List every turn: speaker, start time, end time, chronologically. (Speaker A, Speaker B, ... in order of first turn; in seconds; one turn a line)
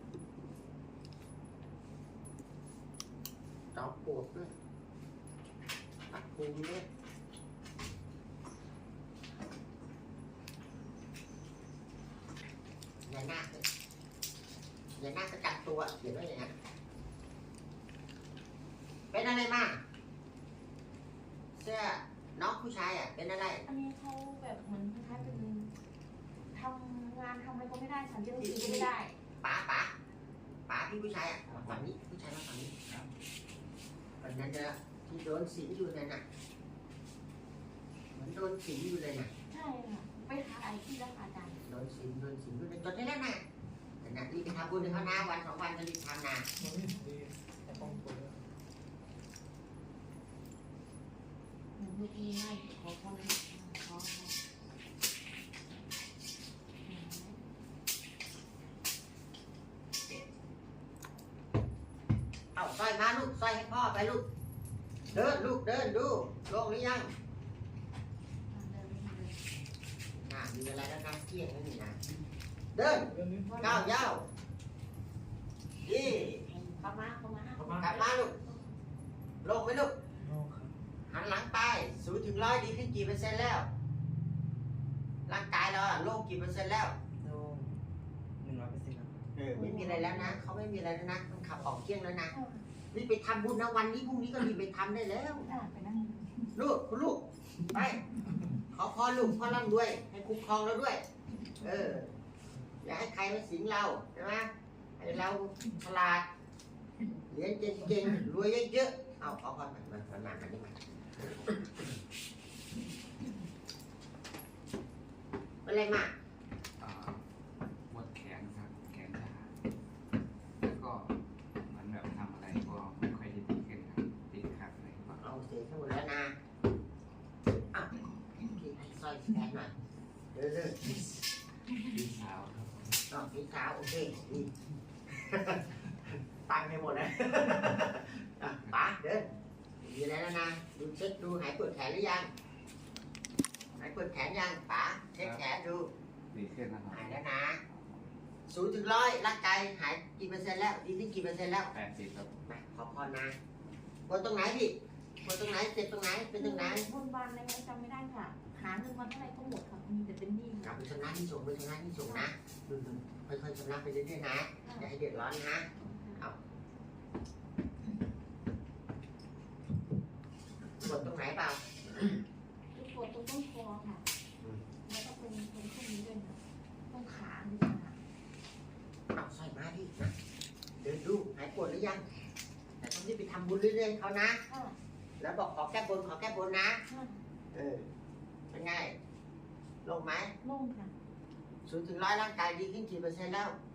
Speaker A: 3.7-4.5
Speaker A: 6.1-6.8
Speaker A: 13.1-13.6
Speaker A: 15.0-16.5
Speaker A: 19.1-19.8
Speaker A: 21.6-23.6
Speaker B: 23.7-25.7
Speaker B: 26.5-29.2
Speaker A: 28.4-28.9
Speaker A: 29.4-29.9
Speaker A: 30.7-32.7
Speaker C: 31.5-31.9
Speaker A: 34.2-36.2
Speaker A: 38.1-39.3
Speaker B: 39.5-41.6
Speaker A: 41.6-43.4
Speaker A: 44.0-46.5
Speaker D: 46.6-48.4
Speaker B: 47.7-48.0
Speaker B: 51.8-54.4
Speaker B: 56.9-57.4
Speaker A: 62.5-64.2
Speaker A: 65.1-67.1
Speaker B: 68.5-69.4
Speaker A: 70.1-72.0
Speaker A: 72.7-74.2
Speaker D: 73.2-73.5
Speaker B: 73.4-73.9
Speaker A: 75.8-76.5
Speaker B: 76.4-78.7
Speaker A: 77.7-78.3
Speaker A: 79.4-79.9
Speaker D: 80.2-80.8
Speaker A: 81.1-83.7
Speaker A: 85.3-87.0
Speaker D: 87.2-87.8
Speaker D: 88.4-89.3
Speaker A: 89.4-92.3
Speaker B: 89.5-90.3
Speaker B: 92.3-92.6
Speaker A: 92.9-95.5
Speaker B: 95.4-96.3
Speaker A: 96.6-98.0
Speaker A: 98.7-101.0
Speaker A: 101.6-102.1
Speaker A: 102.8-106.2
Speaker A: 107.3-111.9
Speaker A: 115.7-116.1
Speaker C: 116.8-117.2
Speaker C: 117.9-119.5
Speaker C: 120.6-125.2
Speaker A: 125.2-126.3
Speaker A: 127.5-129.7
Speaker A: 130.3-131.1
Speaker C: 131.8-133.0
Speaker A: 133.1-134.5
Speaker A: 135.1-135.7
Speaker A: 136.4-139.3
Speaker C: 138.6-138.9
Speaker A: 139.8-142.3
Speaker A: 143.8-145.9
Speaker C: 145.2-145.4
Speaker C: 146.3-148.0
Speaker A: 146.9-147.6
Speaker A: 148.5-151.7
Speaker C: 151.7-152.4
Speaker A: 152.4-153.4
Speaker A: 154.1-156.9
Speaker B: 156.4-160.8
Speaker A: 160.6-165.7
Speaker B: 164.6-164.9
Speaker B: 165.7-166.2
Speaker A: 170.8-171.6
Speaker B: 172.8-174.0
Speaker B: 174.8-178.0
Speaker A: 179.1-180.1
Speaker A: 180.8-182.1
Speaker A: 182.8-184.4
Speaker B: 184.5-184.8
Speaker A: 185.2-186.8
Speaker B: 186.9-187.2
Speaker A: 187.5-187.9
Speaker A: 188.5-189.0
Speaker A: 189.8-190.3
Speaker B: 190.4-190.9
Speaker A: 191.7-193.6